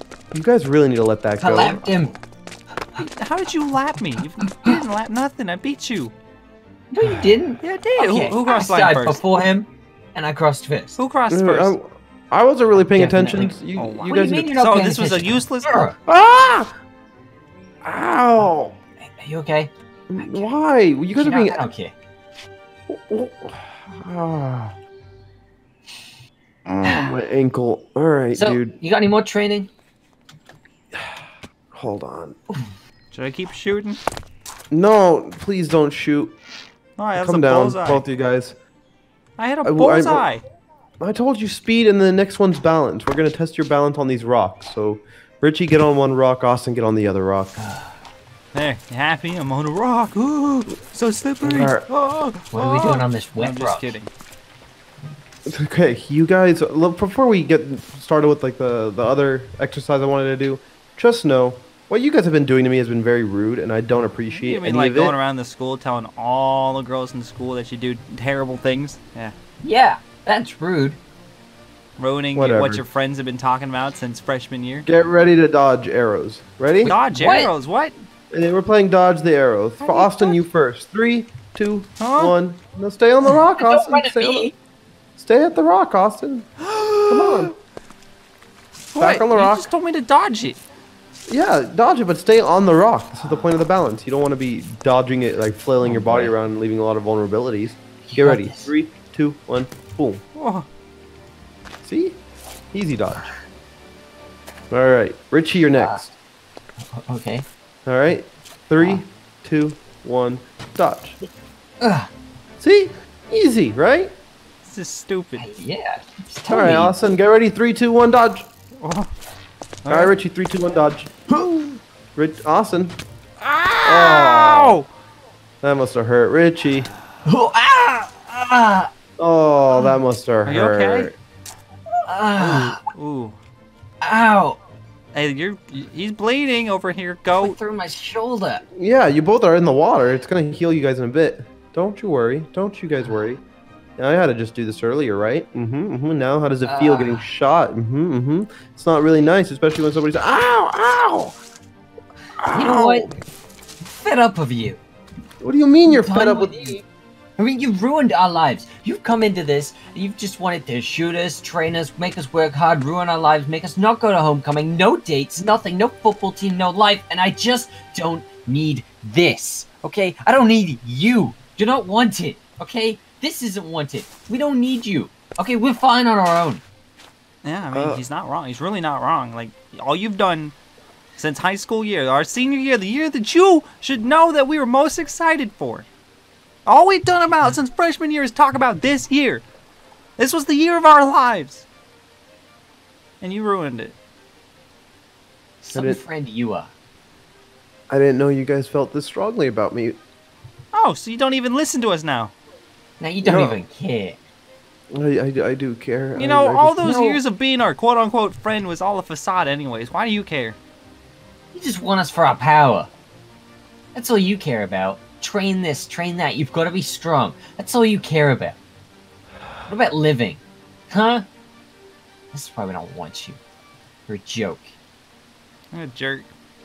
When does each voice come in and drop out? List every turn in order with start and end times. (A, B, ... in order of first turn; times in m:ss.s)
0:00.3-0:01.8 A
0:01.4-0:02.1 B
0:03.0-0:06.1 C
0:04.4-0:04.7 B
0:06.9-0:11.0 B
0:07.6-0:09.2 C
0:11.0-0:11.7 C
0:11.3-0:14.5 A
0:12.8-0:16.0 B
0:13.8-0:15.8 C
0:16.1-0:16.7 A
0:17.8-0:18.8 A
0:19.0-0:20.5 B
0:20.1-0:21.6 A
0:21.1-0:21.9 B
0:22.9-0:24.8 A
0:26.6-0:28.8 A
0:26.8-0:27.2 B
0:28.3-0:29.7 B
0:30.9-0:32.4 A
0:33.1-0:34.0 C
0:34.7-0:36.4 A
0:37.0-0:38.0 C
0:37.1-0:38.6 A
0:39.4-0:40.4 C
0:39.6-0:40.3 A
0:41.0-0:47.6 A
0:47.6-0:48.0 B
0:48.5-0:54.1 C
0:51.4-0:51.9 A
0:52.5-0:53.9 B
0:55.4-1:05.2 A
1:04.4-1:09.3 C
1:09.6-1:11.0 B
1:12.0-1:14.9 C
1:12.3-1:12.8 A
1:14.8-1:17.0 A
1:16.8-1:17.9 C
1:17.1-1:17.5 B
1:18.3-1:24.5 A
1:19.8-1:20.4 C
1:22.0-1:22.3 C
1:23.2-1:24.5 B
1:25.2-1:26.5 A
1:26.6-1:27.5 C
1:27.1-1:27.5 A
1:28.9-1:30.6 C
1:29.0-1:29.7 A
1:31.3-1:40.2 A
1:35.8-1:36.3 B
1:38.1-1:38.7 B
1:40.3-1:40.7 C
1:41.8-1:42.2 A
1:42.7-1:43.3 A
1:44.7-1:46.1 A
1:45.7-1:46.0 B
1:46.8-1:47.4 B
1:47.8-1:51.2 A
1:51.8-1:52.1 B
1:52.6-1:54.1 A
1:54.6-1:55.4 C
1:55.4-1:57.0 B
1:56.5-1:58.5 A
1:58.8-1:59.1 C
1:59.8-2:00.1 C
1:59.9-2:01.2 A
2:02.2-2:03.0 A
2:03.4-2:04.9 C
2:03.8-2:04.8 A
2:05.6-2:06.9 A
2:07.2-2:08.9 B
2:09.2-2:11.2 A
2:10.4-2:11.1 C
2:12.0-2:12.8 B
2:12.4-2:13.4 C
2:14.0-2:14.6 B
2:15.1-2:17.6 C
2:17.4-2:18.6 B
2:18.8-2:23.4 A
2:24.0-2:31.4 A
2:26.6-2:27.3 B
2:32.4-2:33.2 A
2:32.5-2:33.1 B
2:34.0-2:34.8 B
2:35.4-2:36.8 A
2:35.9-2:36.8 B
2:37.4-2:56.6 B
2:57.4-3:00.5 C
2:57.7-2:58.0 A
3:01.2-3:05.9 C
3:06.6-3:09.4 C
3:10.2-3:11.6 C
3:13.2-3:14.0 C
3:15.6-3:16.7 B
3:15.7-3:16.0 A
3:17.9-3:20.0 A
3:20.7-3:22.3 C
3:23.0-3:24.2 B
3:23.2-3:23.6 A
3:24.9-3:27.0 A
3:26.2-3:30.6 C
3:26.8-3:27.2 B
3:31.5-3:32.9 B
3:33.9-3:38.6 B
3:39.7-3:41.2 B
3:42.3-3:43.4 B
3:44.1-3:44.8 B
3:45.7-3:46.3 C